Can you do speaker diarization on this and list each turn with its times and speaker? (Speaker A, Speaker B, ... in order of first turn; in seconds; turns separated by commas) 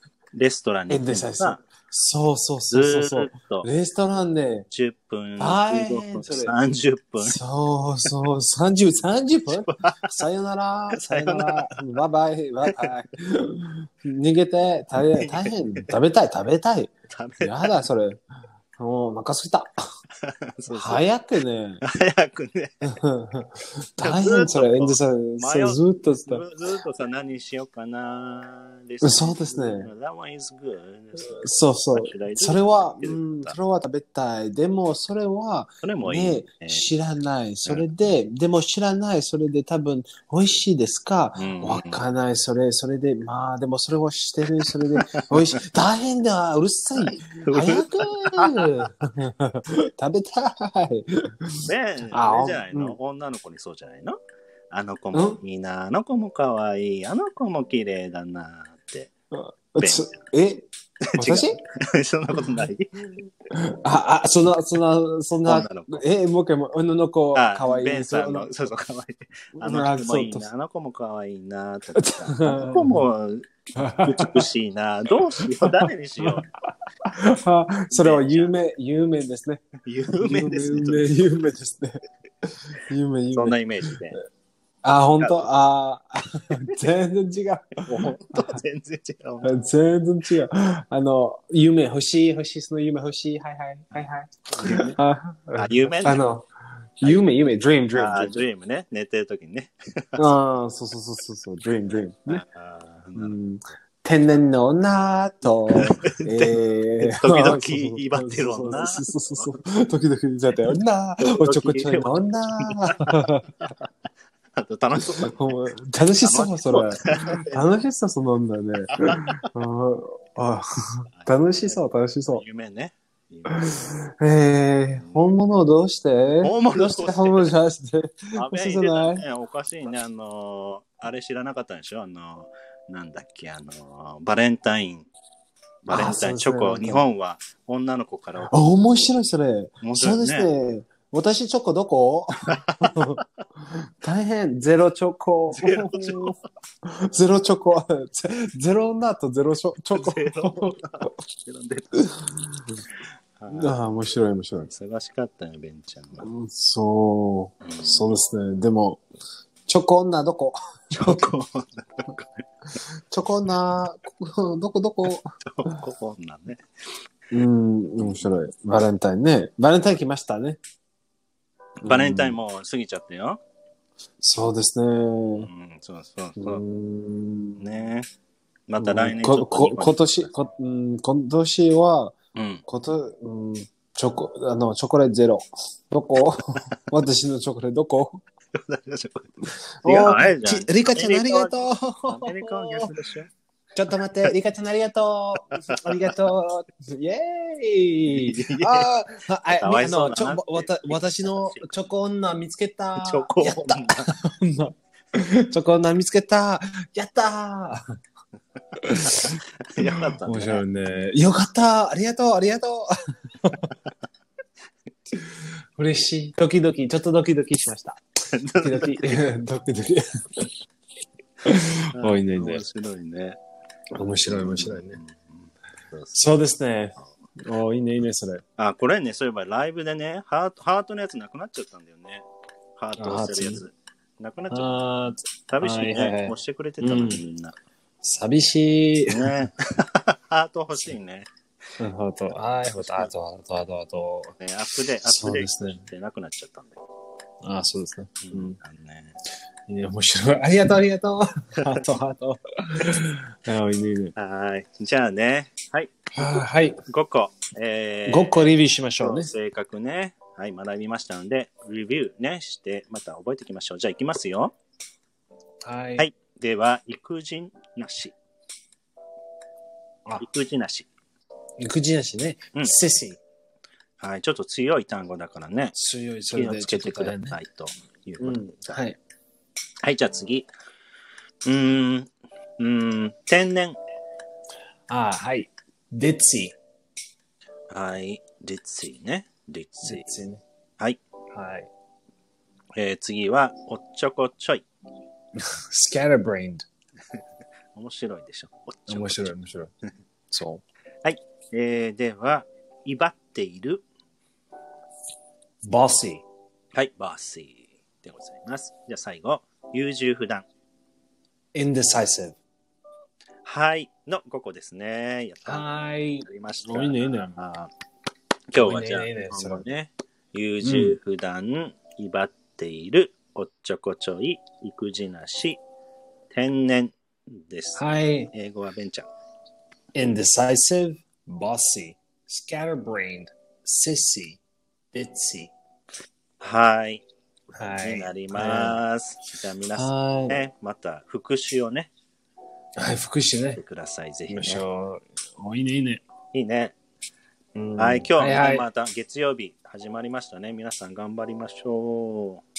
Speaker A: 0.3-1.6, Speaker B: 0.9-4.7, Speaker A: 2.7-3.7, Speaker A: 4.7-7.4, Speaker B: 5.4-6.5, Speaker B: 7.2-18.2, Speaker A: 9.5-10.1, Speaker A: 10.9-11.8, Speaker A: 12.7-12.9, Speaker A: 15.0-15.9, Speaker A: 17.1-17.8, Speaker B: 18.8-19.8, Speaker A: 20.2-21.1, Speaker B: 20.7-21.8, Speaker A: 21.8-22.9, Speaker B: 22.8-26.4, Speaker A: 24.0-31.4, Speaker B: 29.0-29.9, Speaker B: 31.2-53.0, Speaker A: 31.9-33.6, Speaker A: 35.8-36.9, Speaker A: 41.4-42.0, Speaker A: 44.6-45.6, Speaker A: 47.0-48.9, Speaker A: 51.6-54.2, Speaker A: 54.7-59.1, Speaker B: 55.1-55.4, Speaker B: 59.3-61.6, Speaker A: 59.8-60.2, Speaker A: 61.0-62.9, Speaker B: 63.5-68.5, Speaker A: 65.5-66.0, Speaker A: 67.3-76.5, Speaker B: 69.6-70.5, Speaker B: 72.0-73.0, Speaker B: 73.8-74.5, Speaker B: 75.4-76.4, Speaker B: 77.1-79.6, Speaker A: 77.9-78.5, Speaker A: 79.8-81.2, Speaker B: 80.2-84.2, Speaker A: 83.3-84.2, Speaker B: 84.8-88.6, Speaker A: 85.2-85.5, Speaker A: 87.8-89.5, Speaker B: 89.4-96.5, Speaker A: 94.0-95.0, Speaker A: 95.6-96.2, Speaker B: 97.0-98.4, Speaker A: 97.9-100.3, Speaker B: 100.2-102.4, Speaker A: 102.3-103.4, Speaker B: 103.2-113.5, Speaker A: 105.7-109.5, Speaker A: 111.2-113.9, Speaker A: 114.5-115.5, Speaker B: 115.1-122.4, Speaker A: 116.2-117.6, Speaker A: 118.9-119.5, Speaker A: 121.2-123.7, Speaker B: 123.5-129.2, Speaker A: 125.0-125.3, Speaker A: 126.4-127.5, Speaker A: 128.3-135.1, Speaker A: 135.8-138.6, Speaker B: 135.9-137.0, Speaker B: 138.4-151.1, Speaker A: 139.8-140.5, Speaker A: 142.5-143.2, Speaker A: 145.5-146.4, Speaker A: 149.9-152.0, Speaker B: 152.0-152.8, Speaker A: 153.4-153.8, Speaker B: 153.5-154.7, Speaker A: 154.6-156.3, Speaker B: 156.2-159.0, Speaker A: 157.6-158.1, Speaker B: 159.7-161.3, Speaker A: 160.9-162.4, Speaker B: 163.1-165.8, Speaker A: 165.1-166.7, Speaker B: 167.3-170.6, Speaker A: 168.0-168.3, Speaker B: 171.8-172.4, Speaker A: 171.8-173.4, Speaker B: 174.2-175.5, Speaker A: 175.4-176.6, Speaker B: 176.4-177.7, Speaker A: 177.6-178.1, Speaker A: 178.7-180.3, Speaker B: 178.8-182.2, Speaker A: 182.3-182.6, Speaker B: 182.7-188.2, Speaker A: 188.5-189.3, Speaker B: 189.8-193.0, Speaker A: 189.8-193.3, Speaker B: 193.8-207.8, Speaker A: 195.7-196.1, Speaker A: 198.1-198.9, Speaker A: 199.5-201.7, Speaker A: 203.0-204.2, Speaker B: 208.8-213.7, Speaker A: 208.9-210.7, Speaker B: 215.1-218.0, Speaker A: 218.3-219.2, Speaker B: 218.6-220.5, Speaker B: 221.4-222.7, Speaker A: 222.0-223.4, Speaker B: 223.9-225.0, Speaker A: 224.3-226.3, Speaker B: 226.1-228.4, Speaker A: 228.6-232.2, Speaker A: 232.8-234.7, Speaker B: 233.0-233.6, Speaker B: 234.5-237.2, Speaker A: 235.5-237.6, Speaker B: 238.0-239.5, Speaker A: 239.1-241.3, Speaker B: 241.8-244.3, Speaker A: 242.8-243.1, Speaker A: 244.4-246.8, Speaker B: 245.0-245.8, Speaker B: 247.4-248.6, Speaker A: 248.2-249.2, Speaker B: 249.7-254.1, Speaker A: 254.2-264.5, Speaker B: 256.1-256.8, Speaker B: 258.1-259.3, Speaker B: 265.6-266.1, Speaker A: 266.0-268.1, Speaker A: 270.2-270.9, Speaker B: 271.6-273.2, Speaker A: 274.0-275.8, Speaker B: 275.7-277.4, Speaker A: 276.3-278.8, Speaker B: 278.2-279.0, Speaker A: 279.8-280.5, Speaker A: 281.4-283.8, Speaker B: 284.9-286.6, Speaker A: 287.7-290.2, Speaker B: 289.8-290.4, Speaker B: 291.3-291.7, Speaker A: 292.8-294.6, Speaker B: 295.4-296.7, Speaker A: 297.7-299.3, Speaker B: 298.9-299.7, Speaker B: 300.3-300.6, Speaker A: 301.0-303.8, Speaker B: 305.6-306.2, Speaker A: 306.7-310.5, Speaker B: 311.5-312.4, Speaker A: 313.4-315.7, Speaker B: 315.4-317.4, Speaker A: 316.2-317.7, Speaker A: 318.5-325.6, Speaker B: 318.6-319.6, Speaker B: 320.6-321.0, Speaker A: 326.3-327.8, Speaker B: 327.8-328.3, Speaker A: 328.3-329.1, Speaker B: 329.9-334.4, Speaker B: 334.9-335.5, Speaker A: 336.4-337.1, Speaker B: 337.6-338.8, Speaker A: 337.6-341.9, Speaker B: 339.7-340.4, Speaker B: 342.8-343.6, Speaker A: 343.6-344.6, Speaker B: 344.3-346.0, Speaker A: 346.3-346.8, Speaker B: 347.6-348.6, Speaker A: 347.8-352.4